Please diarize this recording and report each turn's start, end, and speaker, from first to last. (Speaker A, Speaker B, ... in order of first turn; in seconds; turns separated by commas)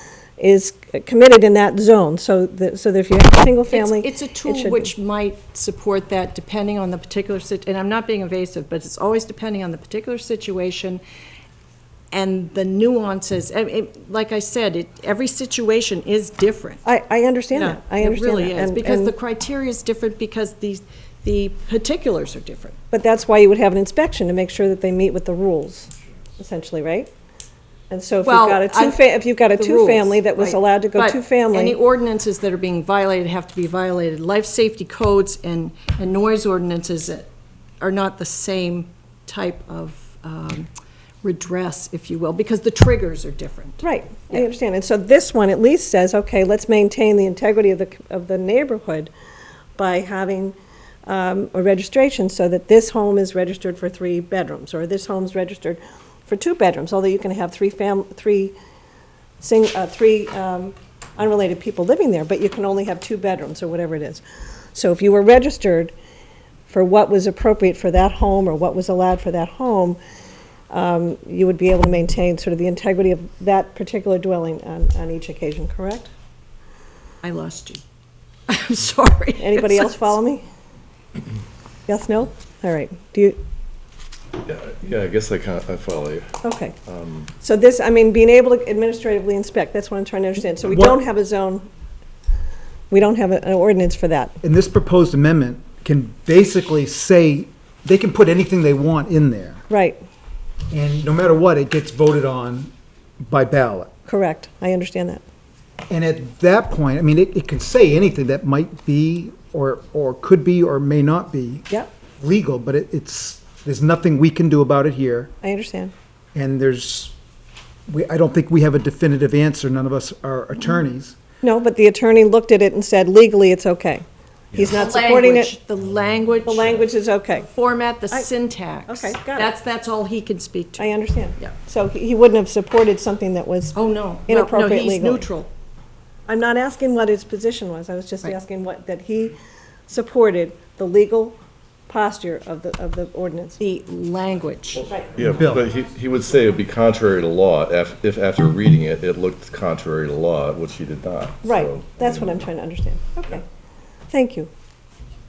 Speaker A: 0.4-4.9, Speaker B: 3.7-11.0, Speaker B: 12.1-16.9, Speaker A: 16.9-19.1, Speaker B: 17.5-22.8, Speaker A: 22.9-27.1, Speaker A: 27.9-31.8, Speaker B: 28.2-40.7, Speaker B: 41.2-44.5, Speaker A: 43.8-49.1, Speaker A: 49.8-50.5, Speaker A: 51.1-58.5, Speaker A: 59.4-64.2, Speaker A: 64.7-65.9, Speaker A: 66.7-70.0, Speaker A: 70.7-76.1, Speaker B: 77.2-77.8, Speaker B: 78.5-80.2, Speaker A: 79.4-80.5, Speaker A: 81.9-83.4, Speaker C: 84.4-87.3, Speaker A: 86.4-86.8, Speaker A: 87.4-91.7, Speaker D: 90.7-91.0, Speaker A: 92.9-94.4, Speaker D: 94.4-99.6, Speaker A: 99.7-100.0, Speaker D: 100.7-103.9, Speaker A: 104.1-105.2, Speaker D: 105.9-111.7, Speaker D: 112.2-115.3, Speaker A: 115.4-115.9, Speaker D: 116.3-117.1, Speaker D: 117.9-121.2, Speaker A: 121.4-125.6, Speaker B: 124.7-131.5, Speaker A: 126.5-127.5, Speaker A: 128.9-129.5, Speaker A: 130.8-135.3, Speaker B: 133.7-135.5, Speaker A: 136.3-139.4, Speaker A: 139.9-141.4, Speaker A: 141.9-143.6, Speaker B: 143.6-144.9, Speaker C: 144.8-152.4, Speaker D: 145.3-145.7, Speaker A: 151.4-153.4, Speaker A: 154.1-154.5